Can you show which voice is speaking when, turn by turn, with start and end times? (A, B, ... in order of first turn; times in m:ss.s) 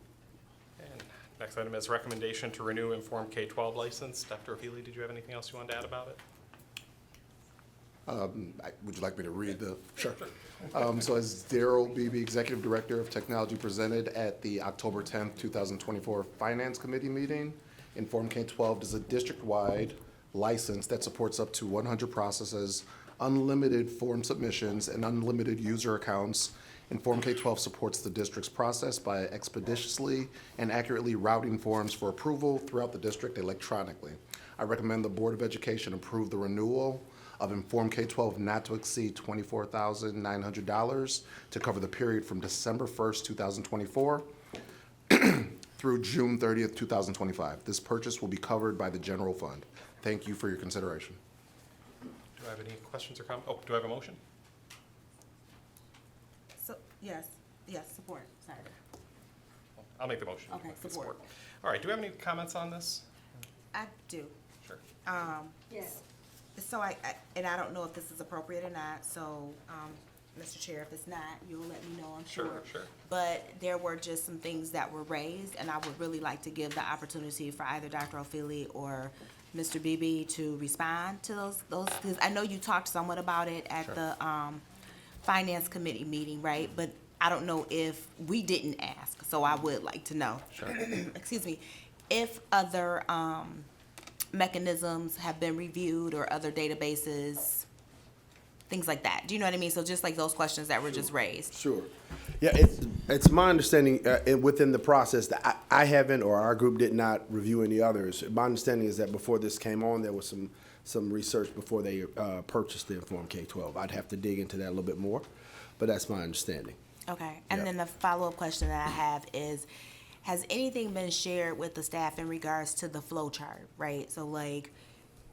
0:00.8-0:06.2 A
0:08.1-0:44.3 B
0:45.1-0:51.2 B
0:52.4-0:54.2 A
0:56.6-0:58.8 C
1:00.0-1:03.0 A
1:00.5-1:01.2 C
1:03.7-1:04.4 C
1:05.0-1:05.7 C
1:06.6-1:24.6 C
1:12.3-1:12.9 A
1:25.2-1:33.7 C
1:34.3-1:37.7 C
1:38.7-1:41.6 C
1:41.5-1:55.2 D
1:55.8-1:56.8 D
1:57.1-1:59.7 C
2:00.2-2:04.8 C